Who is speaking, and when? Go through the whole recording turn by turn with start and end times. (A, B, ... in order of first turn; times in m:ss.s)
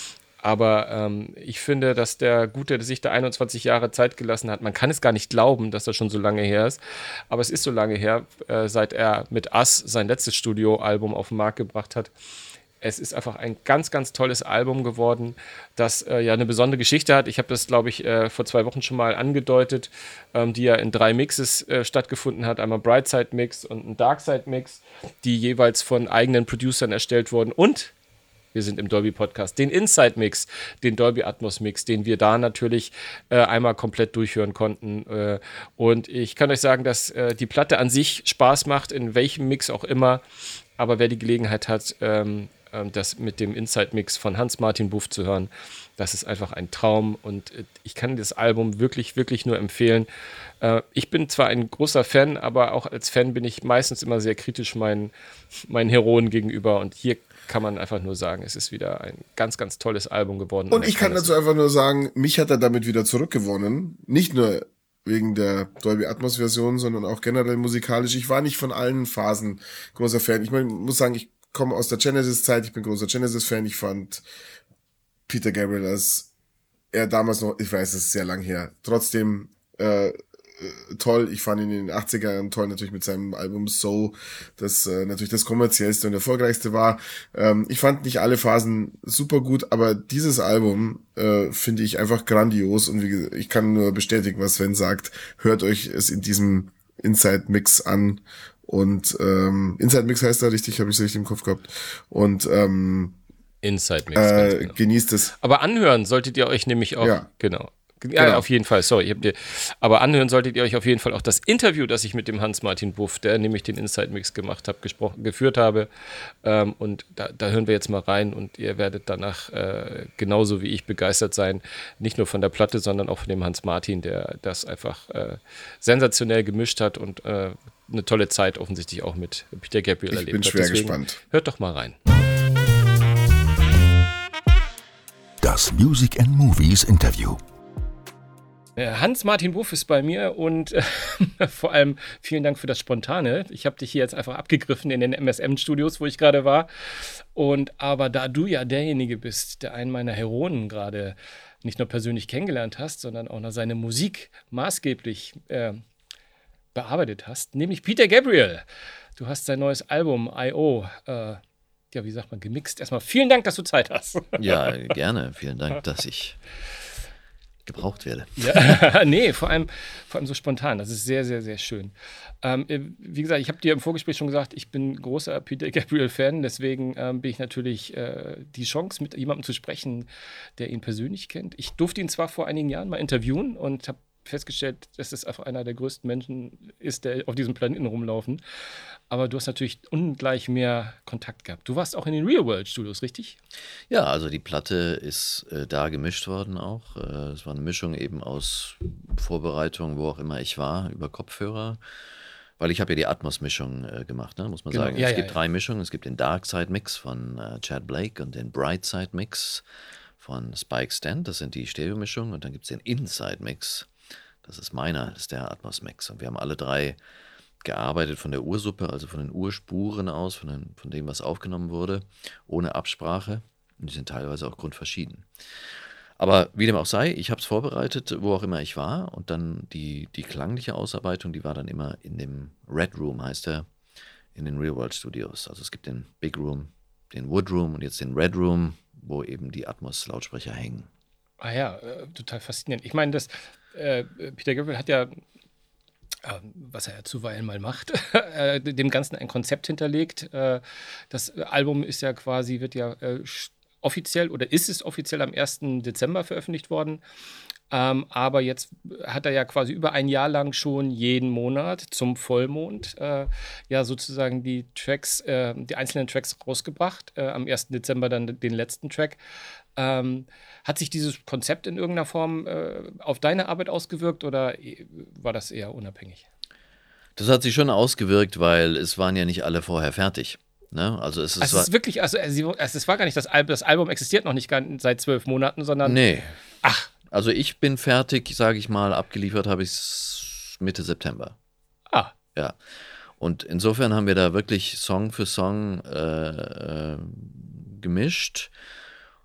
0:00.4-0:06.8 A
0:07.3-0:12.1 A
0:12.8-0:27.9 A
0:28.5-0:40.2 A
0:40.8-0:50.1 A
0:50.6-0:55.1 A
0:55.7-1:01.3 A
1:00.7-1:14.2 B
1:15.3-1:16.3 B
1:16.9-1:43.2 B
1:43.6-1:44.8 A
1:44.1-1:45.3 B
1:45.4-1:55.9 A
1:47.0-1:47.3 B
1:48.2-1:48.4 B
1:56.4-2:12.0 A
2:10.1-2:11.2 B
2:15.4-2:17.4 C
2:18.8-2:35.8 A
2:36.7-2:38.6 A
2:39.2-2:41.4 A
2:41.9-2:44.7 A
2:44.4-2:46.4 D
2:47.6-2:48.5 D
2:48.4-3:00.1 A
3:00.6-3:08.4 A
3:09.1-3:13.4 A
3:13.9-3:21.8 D
3:22.6-3:29.6 D
3:24.7-3:25.4 A
3:30.2-3:33.9 D
3:34.4-3:37.0 D
3:37.6-3:45.3 D
3:46.2-3:53.7 D
3:54.3-4:00.9 D
4:01.4-4:05.2 A
4:06.2-4:17.0 A
4:17.7-4:29.2 A
4:29.8-4:36.2 A
4:37.2-4:41.7 D
4:41.4-4:46.0 A
4:45.8-4:46.4 D
4:46.6-4:46.9 A
4:47.1-4:51.3 D
4:53.2-4:58.5 D